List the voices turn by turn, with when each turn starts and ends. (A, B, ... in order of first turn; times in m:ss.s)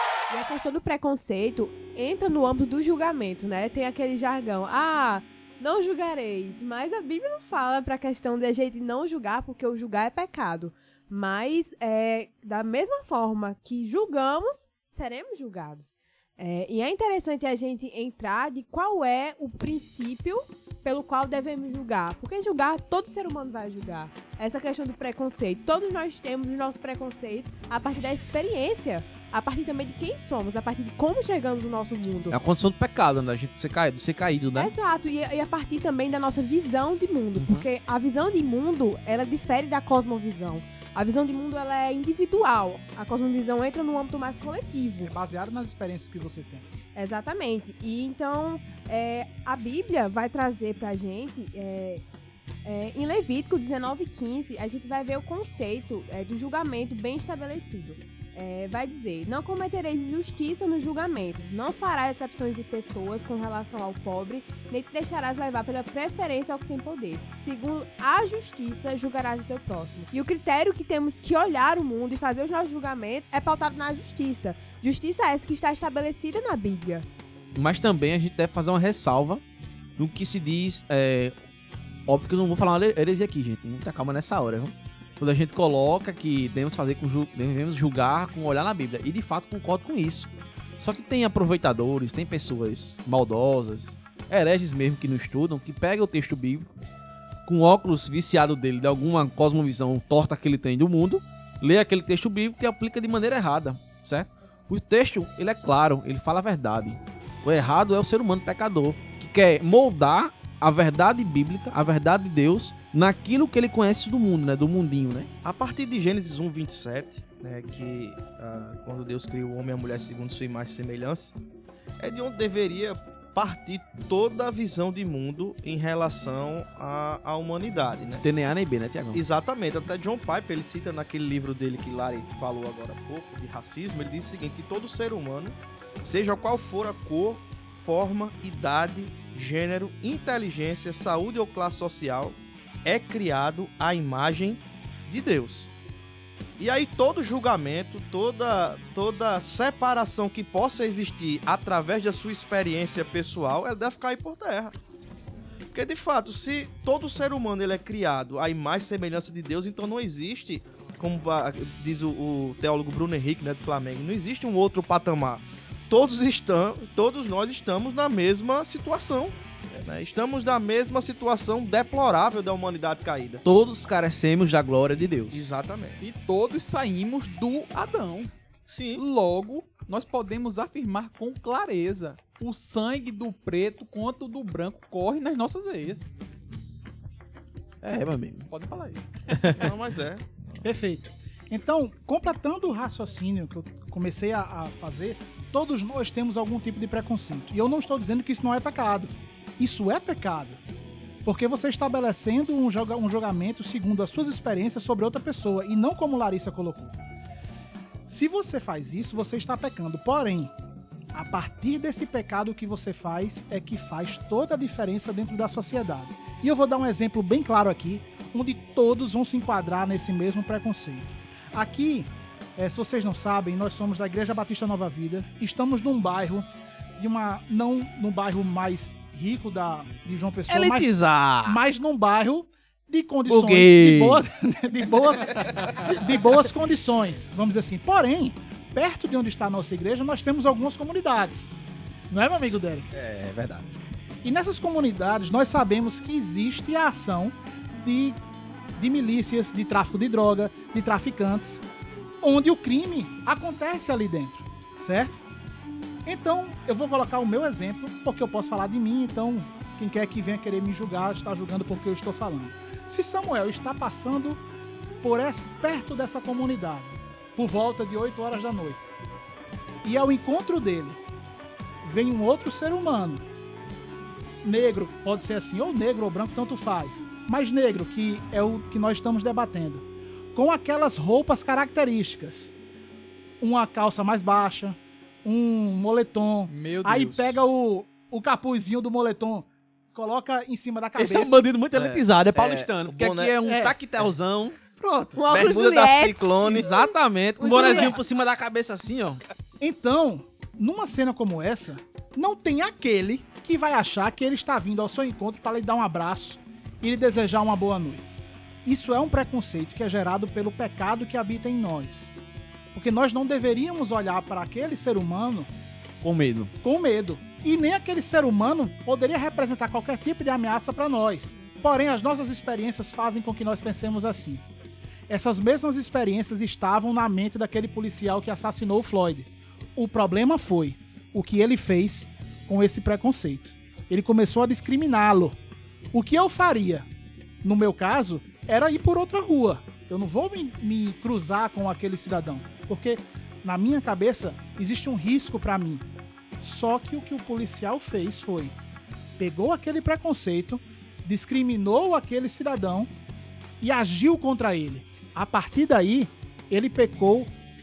0:00.3-0:32.4 A
0:32.3-0:34.7 B
0:34.5-0:45.1 A
0:37.4-0:37.6 B
0:45.0-0:46.7 C
0:46.9-0:52.0 A
0:52.6-1:17.1 A
1:17.5-1:19.4 B
1:20.0-1:21.3 B
1:22.1-1:36.7 B
1:37.4-1:55.3 B
1:55.4-2:01.3 D
2:02.0-2:08.2 D
2:08.2-2:09.2 B
2:09.1-2:25.7 D
2:26.6-2:34.7 D
2:35.7-2:53.4 D
2:53.4-2:55.5 B
2:55.3-2:56.0 D
2:56.0-2:58.3 E
2:58.7-2:59.0 D
2:59.0-3:06.1 E
3:07.8-3:08.5 B
3:08.5-3:09.1 E
3:09.3-3:09.7 B
3:09.5-3:10.3 D
3:10.6-3:20.6 C
3:21.2-3:27.0 C
3:28.1-3:30.5 C
3:31.1-3:46.4 C
3:47.0-4:01.6 C
3:50.5-3:51.6 B
3:53.3-3:54.2 B
4:02.1-4:02.9 C
4:02.9-4:03.6 B
4:04.2-4:08.2 C
4:08.8-4:11.6 C
4:12.2-4:15.2 C
4:16.0-4:24.4 C
4:25.0-4:28.9 C
4:29.8-4:31.0 C
4:31.8-4:33.2 C
4:34.4-4:42.5 C
4:43.4-4:51.4 C
4:46.5-4:47.4 E
4:51.0-4:54.6 B
4:51.7-4:53.4 D
4:53.4-4:53.8 C
4:54.8-4:55.2 C
4:55.2-4:58.0 A
4:55.3-4:59.2 B
4:55.3-4:56.7 D
4:57.6-4:57.9 C
4:59.6-5:12.1 C
5:12.7-5:15.5 C
5:16.0-5:16.5 B
5:16.6-5:24.4 C
5:25.1-5:35.4 C
5:35.9-5:36.9 C
5:37.4-5:45.8 C
5:46.4-5:48.6 C
5:49.2-5:52.9 C
5:53.6-5:57.3 C